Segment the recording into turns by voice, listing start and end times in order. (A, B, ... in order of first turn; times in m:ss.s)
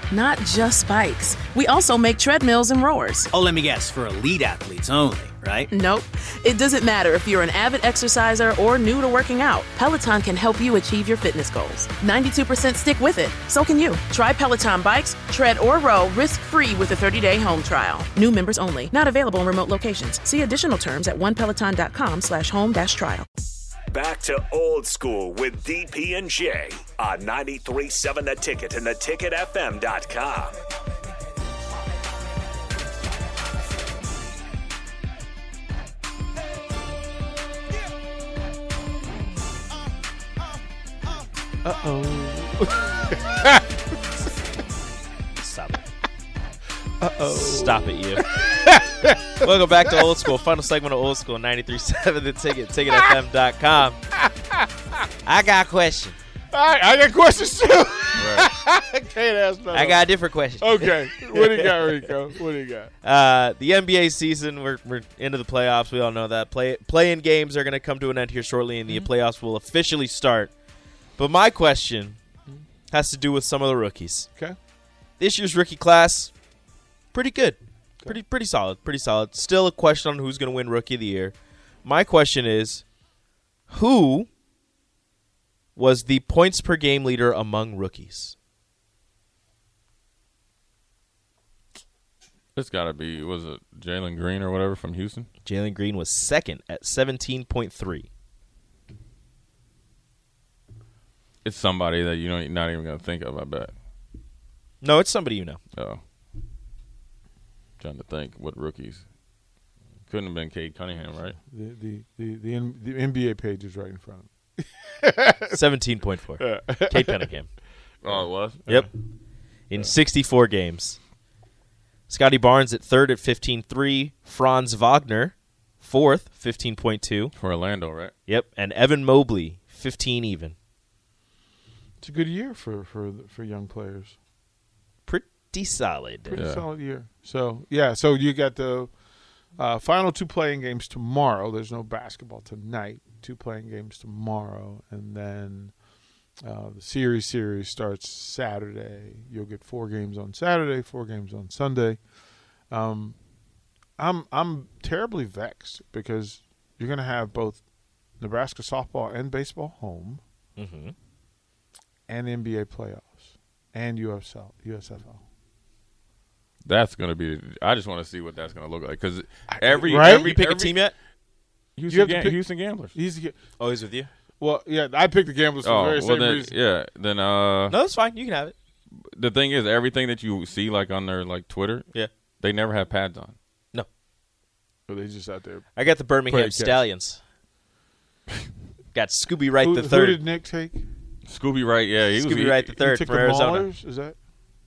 0:00.1-0:03.3 A
0:03.3-0:05.7 B
0:05.7-0:23.2 A
0:23.9-0:30.6 C
0:41.6-0:43.8 D
0:45.4-0:45.9 E
0:47.0-0:49.5 D
0:47.2-0:48.2 E
0:49.4-0:54.0 E
0:54.3-0:54.7 D
0:55.2-0:56.2 E
0:56.5-1:02.9 D
0:58.2-0:58.5 F
0:59.7-1:02.1 E
1:03.0-1:10.5 E
1:11.2-1:12.2 E
1:12.9-1:14.3 E
1:15.2-1:16.3 E
1:17.1-1:22.8 E
1:23.7-1:24.3 E
1:25.8-1:28.4 E
1:32.5-1:35.3 F
1:35.4-1:38.1 E
1:41.4-1:43.7 F
1:44.8-1:45.6 E
1:45.7-1:46.0 F
1:47.8-1:49.0 F
1:50.1-1:51.4 F
1:51.5-1:55.5 D
1:55.5-1:57.5 E
1:56.4-1:57.3 D
1:58.0-1:58.8 F
1:59.7-2:01.0 E
2:02.1-2:07.3 E
2:07.3-2:08.1 F
2:08.3-2:10.6 E
2:12.0-2:14.1 D
2:15.0-2:16.4 E
2:16.2-2:18.9 D
2:16.3-2:16.6 F
2:19.6-2:25.7 D
2:26.4-2:32.0 D
2:32.7-2:33.2 D
2:34.0-2:37.6 D
2:38.2-2:40.2 D
2:40.6-2:40.9 E
2:42.1-2:45.2 D
2:46.6-2:50.8 F
2:49.5-2:50.3 D
2:49.9-2:50.9 E
2:51.8-2:53.0 F
2:51.9-2:52.4 D
2:52.9-2:53.4 D
2:53.6-2:54.1 E
2:54.4-2:56.5 D
2:55.6-2:57.8 F
2:57.7-2:58.5 E
2:58.9-3:01.9 F
3:02.4-3:03.4 F
3:04.9-3:05.8 D
3:05.7-3:07.2 E
3:06.3-3:06.8 D
3:08.9-3:10.2 E
3:09.6-3:10.9 D
3:11.3-3:12.7 F
3:12.1-3:13.7 E
3:12.8-3:14.2 D